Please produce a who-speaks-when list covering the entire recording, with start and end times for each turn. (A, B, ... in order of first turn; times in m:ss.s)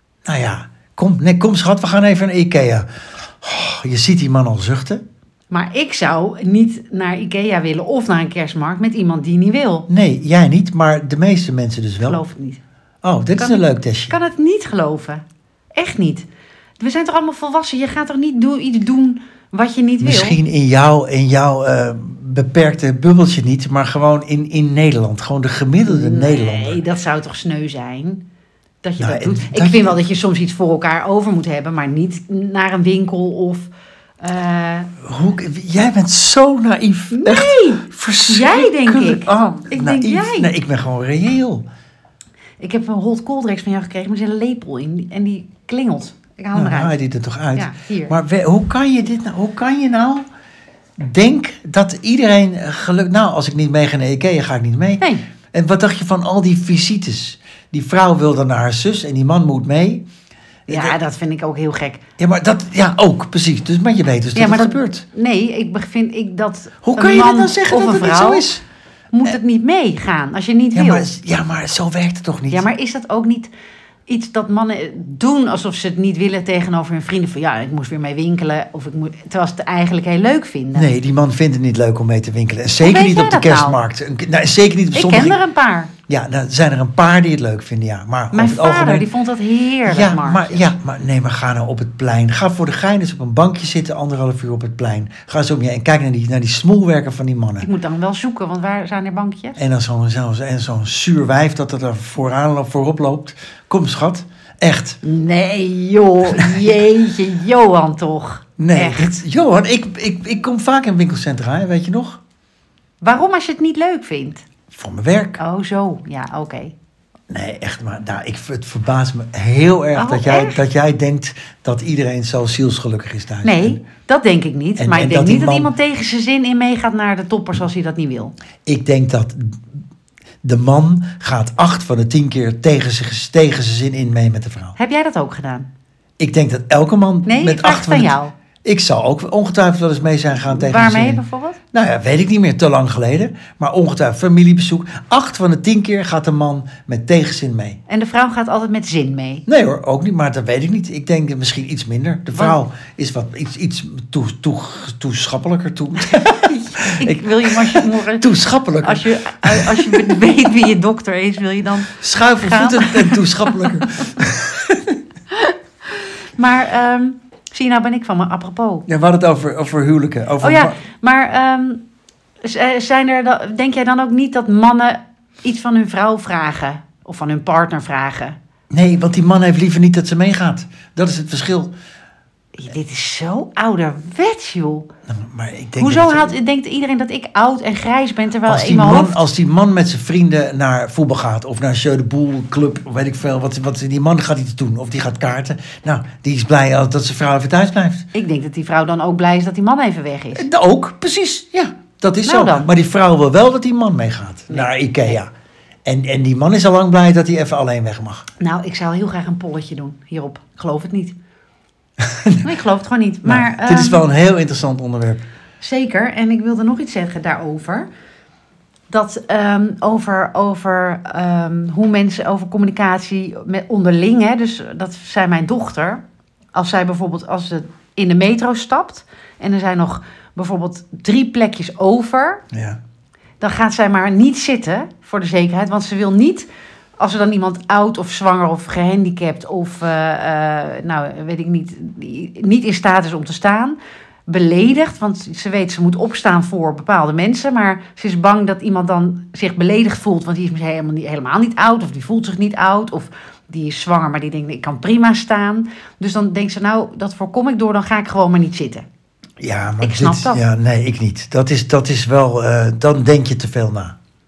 0:00.2-0:05.0 A
0:05.5-0:09.9 B
0:09.9-0:12.2 A
0:12.0-0:12.6 B
0:13.0-0:14.2 A
0:13.4-0:15.2 B
0:15.7-0:16.2 B
0:16.8-0:20.4 B
0:20.0-0:26.8 A
0:25.8-0:28.2 B
0:28.8-0:33.7 B
0:29.0-0:30.0 A
0:34.2-0:34.9 B
0:35.0-0:41.6 A
0:37.1-0:40.5 B
0:42.6-0:46.9 B
0:46.5-0:50.2 A
0:47.5-0:48.2 B
0:51.0-1:00.1 A
0:55.0-0:55.2 B
1:00.7-1:01.0 A
1:00.7-1:02.0 B
1:02.2-1:05.0 A
1:04.3-1:08.5 B
1:06.8-1:08.6 A
1:09.1-1:11.1 B
1:10.7-1:12.7 A
1:12.5-1:13.5 B
1:14.1-1:20.9 B
1:20.7-1:25.4 A
1:22.8-1:23.8 B
1:24.9-1:25.9 B
1:26.1-1:29.1 A
1:28.3-1:30.7 B
1:29.8-1:37.7 A
1:37.6-1:39.6 B
1:39.6-1:45.0 A
1:45.0-1:49.1 B
1:46.3-1:46.7 A
1:48.6-1:52.2 A
1:53.0-1:54.5 B
1:54.7-1:55.4 A
1:55.4-1:56.7 B
1:57.3-2:03.8 A
1:59.9-2:00.6 B
2:03.4-2:08.3 B
2:04.8-2:05.7 A
2:08.6-2:09.6 A
2:10.4-2:14.8 A
2:14.8-2:15.7 B
2:16.2-2:21.2 A
2:17.2-2:18.3 B
2:20.4-2:21.6 B
2:21.7-2:27.8 A
2:27.9-2:29.4 B
2:29.5-2:40.2 A
2:36.0-2:44.1 B
2:41.9-2:45.0 A
2:45.3-2:48.8 B
2:48.9-2:50.8 A
2:50.4-2:51.8 B
2:52.4-2:58.4 B
2:58.7-3:01.7 A
3:02.6-3:04.9 B
3:05.1-3:06.3 A
3:05.8-3:09.2 B
3:08.4-3:18.1 A
3:18.1-3:20.5 B
3:20.3-3:25.3 A
3:22.2-3:22.7 B
3:24.5-3:25.2 B
3:25.8-3:28.3 A
3:28.4-3:31.1 B
3:32.0-3:32.5 A
3:32.4-3:34.0 B
3:33.2-3:35.2 A
3:35.6-3:37.9 B
3:38.9-3:46.0 B
3:46.5-3:52.4 B
3:52.5-3:52.8 A
3:53.4-3:56.5 B
3:57.0-4:18.8 B
4:19.4-4:24.0 A
4:19.8-4:20.4 B